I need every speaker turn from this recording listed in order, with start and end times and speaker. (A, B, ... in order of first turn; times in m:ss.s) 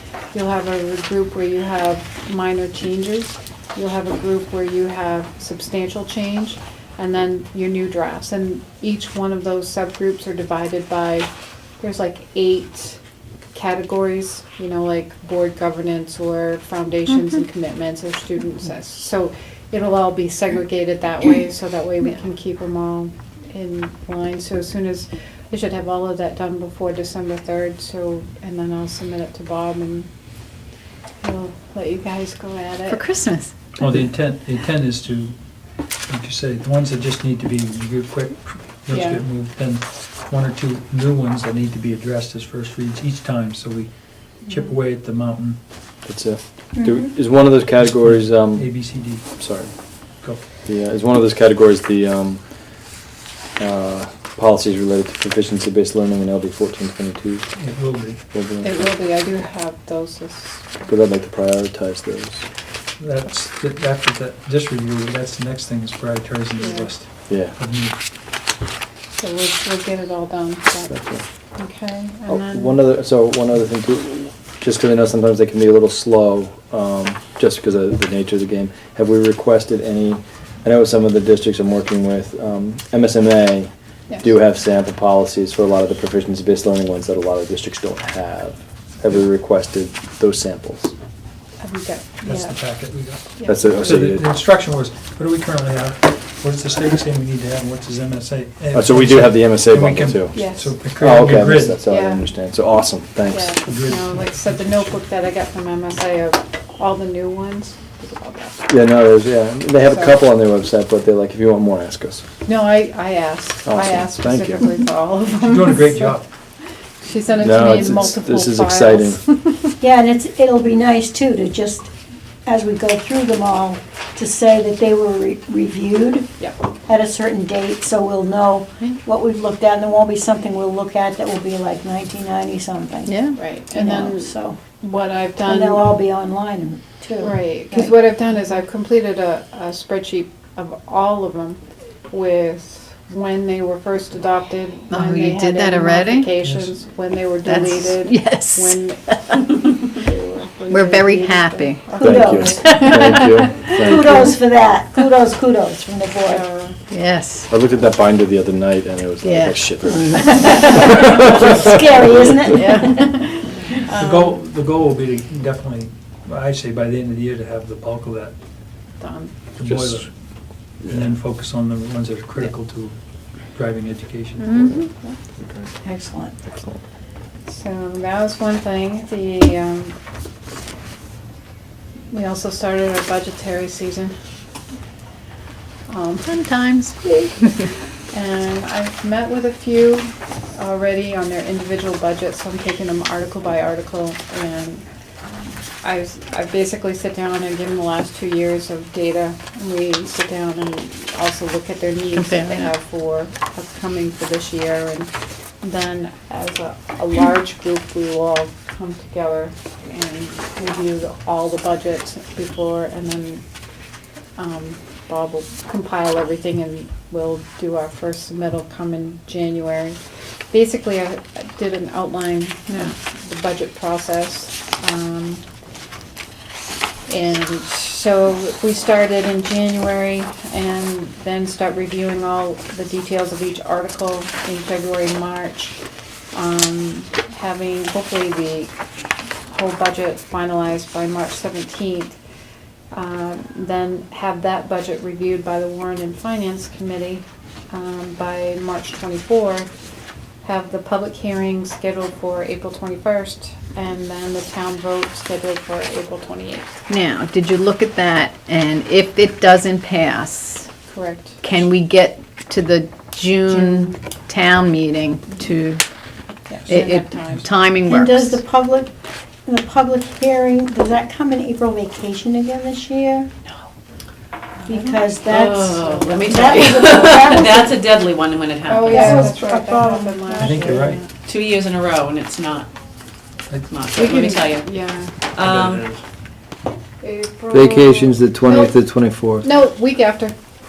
0:00.3-0:11.3 A
0:11.8-0:13.0 A
0:13.5-0:30.1 A
0:31.2-0:33.0 A
0:33.0-0:33.5 B
0:33.8-0:45.6 C
0:38.9-0:39.2 A
0:46.0-0:50.0 D
0:46.8-0:47.1 E
0:47.8-0:50.4 C
0:50.6-0:52.5 D
0:53.6-0:58.9 D
0:57.5-0:58.2 C
0:58.6-1:00.9 A
1:00.9-1:02.5 D
1:03.0-1:08.0 C
1:06.6-1:06.9 A
1:07.3-1:07.6 D
1:09.2-1:11.0 A
1:10.9-1:11.2 D
1:11.5-1:12.8 A
1:12.3-1:30.9 D
1:31.6-1:32.6 A
1:32.2-1:41.8 C
1:33.4-1:33.7 A
1:33.4-1:34.3 D
1:38.7-1:43.6 D
1:40.3-1:40.7 A
1:41.7-1:42.2 A
1:43.3-1:48.7 A
1:43.7-1:44.9 C
1:48.7-1:52.2 D
1:49.9-1:50.1 A
1:52.4-1:56.2 A
1:53.6-1:54.7 D
1:55.4-1:56.2 C
1:57.0-1:59.7 A
1:57.4-1:59.2 D
1:59.8-2:01.9 E
2:02.4-2:06.3 E
2:06.9-2:14.6 E
2:13.4-2:15.9 A
2:15.4-2:17.9 E
2:17.2-2:33.2 A
2:24.9-2:26.3 B
2:26.4-2:26.7 C
2:27.4-2:29.4 B
2:30.7-2:31.9 B
2:31.9-2:33.2 E
2:32.0-2:34.4 D
2:33.8-2:36.4 E
2:36.2-2:36.8 A
2:37.0-2:37.5 B
2:37.5-2:41.7 D
2:39.8-2:43.1 E
2:40.4-2:41.0 B
2:42.5-2:44.3 A
2:43.8-2:48.3 C
2:49.0-2:49.3 A
2:49.6-2:50.1 C
2:50.8-2:52.9 C
2:53.4-2:54.6 C
2:54.6-2:55.7 D
2:55.8-2:56.4 E
2:56.4-2:56.8 D
2:57.4-2:59.9 A
3:02.1-3:04.2 A
3:05.9-3:06.4 A
3:06.2-3:07.7 B
3:08.1-3:14.8 A
3:15.8-3:33.4 A
3:22.1-3:22.7 B
3:34.4-3:40.0 A
3:40.5-3:45.4 A
3:47.1-3:55.8 A
3:56.3-3:58.7 A
3:59.5-4:02.2 A
4:02.9-4:09.7 A
4:10.4-4:16.8 A
4:16.9-4:20.7 B
4:20.9-4:21.4 A
4:21.4-4:25.8 B
4:23.5-4:24.0 A
4:26.5-4:27.5 A
4:26.7-4:28.4 B
4:27.8-4:28.9 E
4:29.4-4:33.3 E
4:34.6-4:37.8 E
4:35.2-4:39.3 F
4:38.6-4:41.1 A
4:38.9-4:40.8 E
4:40.4-4:41.0 C
4:41.2-4:42.7 F
4:43.5-4:43.8 C
4:43.7-4:44.7 F
4:43.9-4:45.1 A
4:45.3-4:45.9 F
4:45.4-4:45.8 C
4:47.0-4:48.7 A
4:47.5-4:49.4 D
4:49.4-4:50.3 A